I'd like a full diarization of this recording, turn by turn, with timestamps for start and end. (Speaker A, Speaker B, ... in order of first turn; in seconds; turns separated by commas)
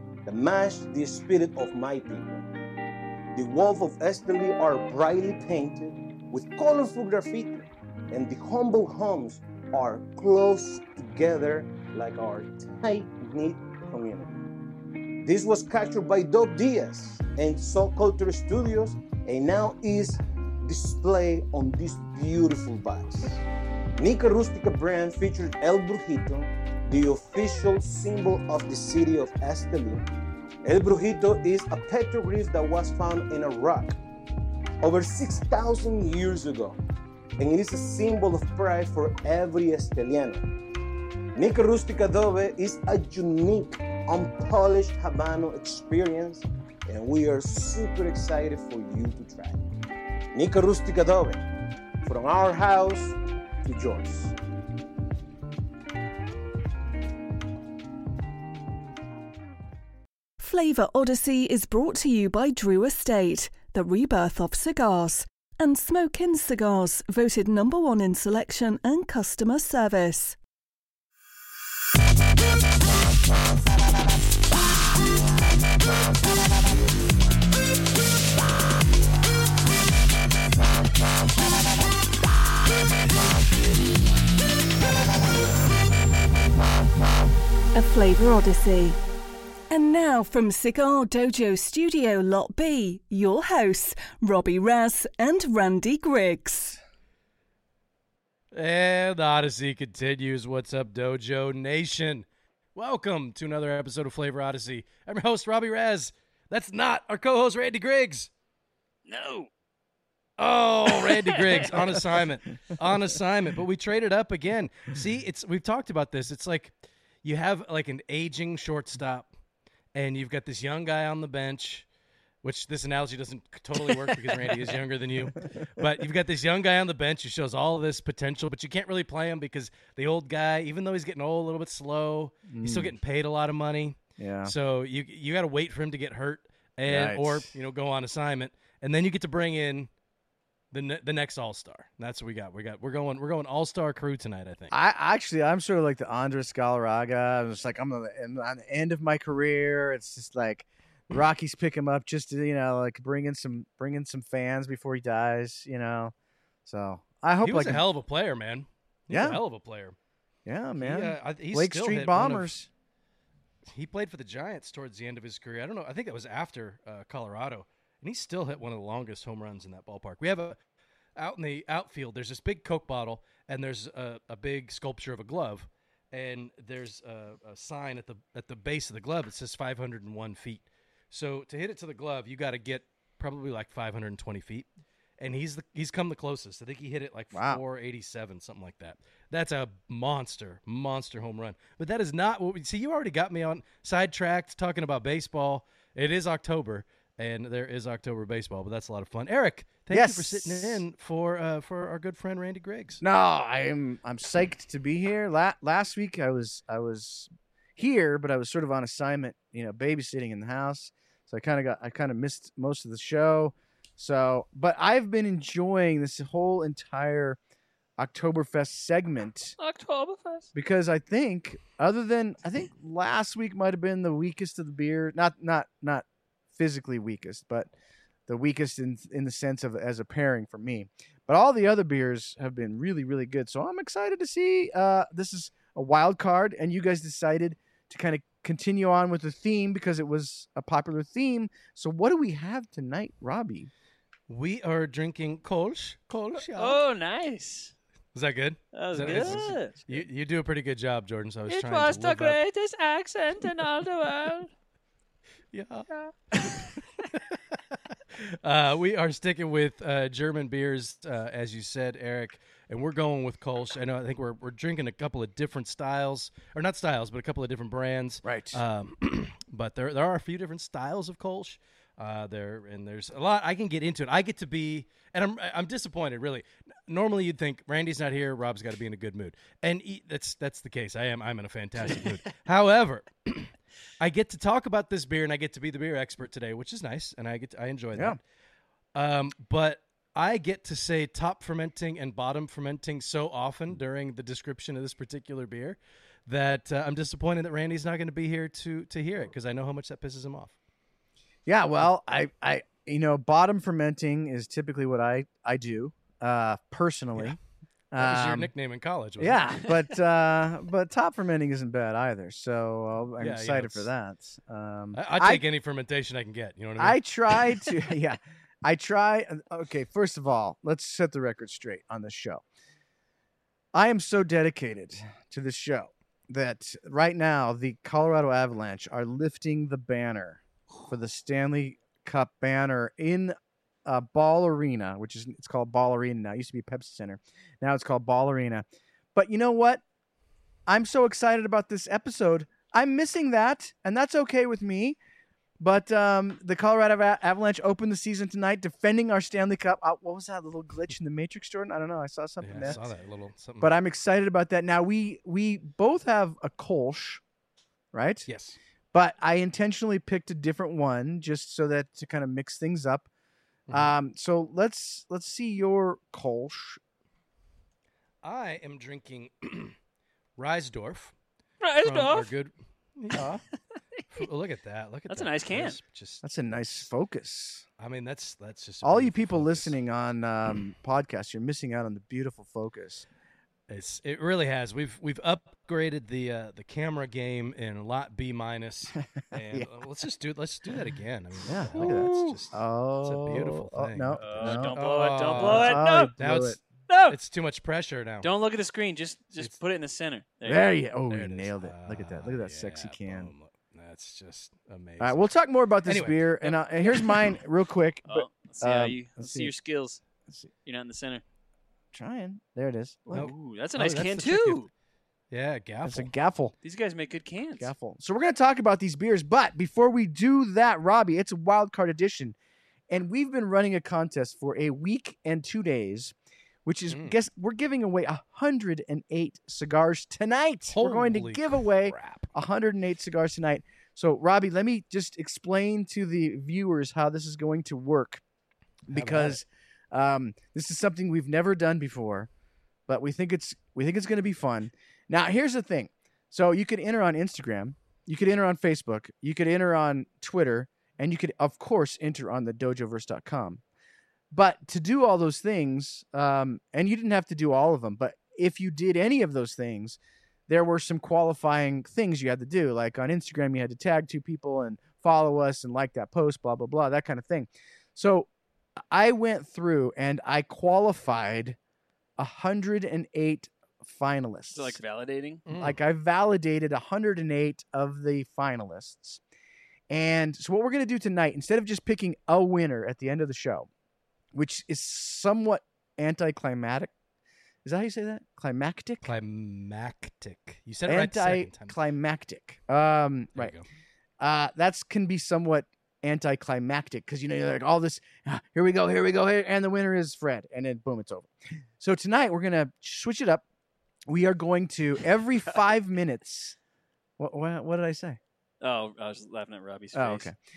Speaker A: 0.3-2.5, Speaker A: 3.4-14.4, Speaker A: 15.2-23.4, Speaker A: 24.0-30.1, Speaker A: 30.6-34.0, Speaker A: 34.8-36.8, Speaker A: 37.4-40.4, Speaker A: 41.4-49.6, Speaker A: 50.3-51.4, Speaker A: 52.0-54.3, Speaker B: 60.4-70.4, Speaker B: 87.7-89.0, Speaker B: 89.7-96.8, Speaker C: 98.5-108.3, Speaker D: 109.1-109.5, Speaker C: 110.4-119.3, Speaker D: 110.9-112.0, Speaker C: 119.9-121.9, Speaker C: 122.4-139.9, Speaker E: 132.5-132.9, Speaker E: 134.2-134.5, Speaker E: 136.8-137.5, Speaker C: 140.7-144.8, Speaker E: 144.7-156.1, Speaker E: 156.7-157.8, Speaker C: 157.4-160.0, Speaker E: 159.1-159.4, Speaker E: 160.4-162.7, Speaker C: 160.8-162.5, Speaker C: 163.7-170.6, Speaker C: 171.2-184.7, Speaker C: 185.2-203.0, Speaker E: 187.3-187.6, Speaker E: 199.9-200.8, Speaker E: 203.0-217.4, Speaker E: 218.0-219.6, Speaker D: 219.6-220.5, Speaker E: 220.5-227.7, Speaker E: 228.3-243.7, Speaker C: 244.3-246.8, Speaker D: 246.4-247.7, Speaker C: 248.2-252.4, Speaker D: 248.7-249.7, Speaker E: 249.0-250.0, Speaker D: 251.5-254.5, Speaker C: 255.5-257.4, Speaker D: 255.9-256.8, Speaker C: 258.2-288.2, Speaker E: 268.2-268.6, Speaker E: 287.9-288.2, Speaker C: 288.9-300.6, Speaker E: 301.5-307.4, Speaker E: 307.9-308.5, Speaker C: 308.0-309.7, Speaker E: 309.2-315.4, Speaker C: 313.2-313.9, Speaker C: 314.9-317.0, Speaker E: 316.8-322.4, Speaker E: 323.7-333.3, Speaker E: 333.9-339.8, Speaker E: 340.7-345.0, Speaker E: 345.6-352.8, Speaker C: 352.4-353.7, Speaker E: 353.6-357.2, Speaker E: 357.9-358.3, Speaker C: 358.3-358.6, Speaker E: 358.9-363.1, Speaker C: 363.7-363.9, Speaker E: 363.7-366.8, Speaker C: 368.2-369.8, Speaker C: 370.4-371.1, Speaker D: 371.6-372.3, Speaker C: 371.8-373.4, Speaker E: 373.1-373.4, Speaker C: 374.1-376.2, Speaker D: 375.1-375.8, Speaker E: 376.2-377.6, Speaker C: 377.8-379.8, Speaker E: 378.8-383.1, Speaker C: 383.7-398.3, Speaker E: 391.4-394.7, Speaker D: 394.2-396.1, Speaker E: 395.3-396.6, Speaker D: 396.9-397.1, Speaker D: 398.2-400.6, Speaker E: 400.5-403.3, Speaker C: 401.1-405.3, Speaker E: 405.0-409.5, Speaker C: 405.9-407.2, Speaker D: 408.1-410.0, Speaker D: 410.6-411.2, Speaker E: 411.9-413.3, Speaker C: 413.1-414.6, Speaker D: 413.1-414.7, Speaker C: 415.3-416.1, Speaker E: 415.8-416.6, Speaker D: 416.6-417.7, Speaker E: 417.6-422.4, Speaker E: 422.9-438.2, Speaker C: 426.9-427.1, Speaker C: 430.7-432.3, Speaker E: 438.9-442.3, Speaker C: 438.9-439.4, Speaker E: 442.9-453.6, Speaker E: 454.3-468.3, Speaker E: 468.8-471.6, Speaker E: 472.2-474.8, Speaker D: 474.5-475.5, Speaker C: 475.5-475.8, Speaker E: 475.5-479.2, Speaker E: 479.9-483.7, Speaker E: 484.3-486.9, Speaker E: 487.6-489.1, Speaker C: 489.0-491.8, Speaker E: 490.9-493.6, Speaker C: 493.4-493.6, Speaker E: 494.2-503.4, Speaker E: 504.1-506.6, Speaker E: 507.2-508.2, Speaker D: 508.6-510.3, Speaker E: 509.9-510.4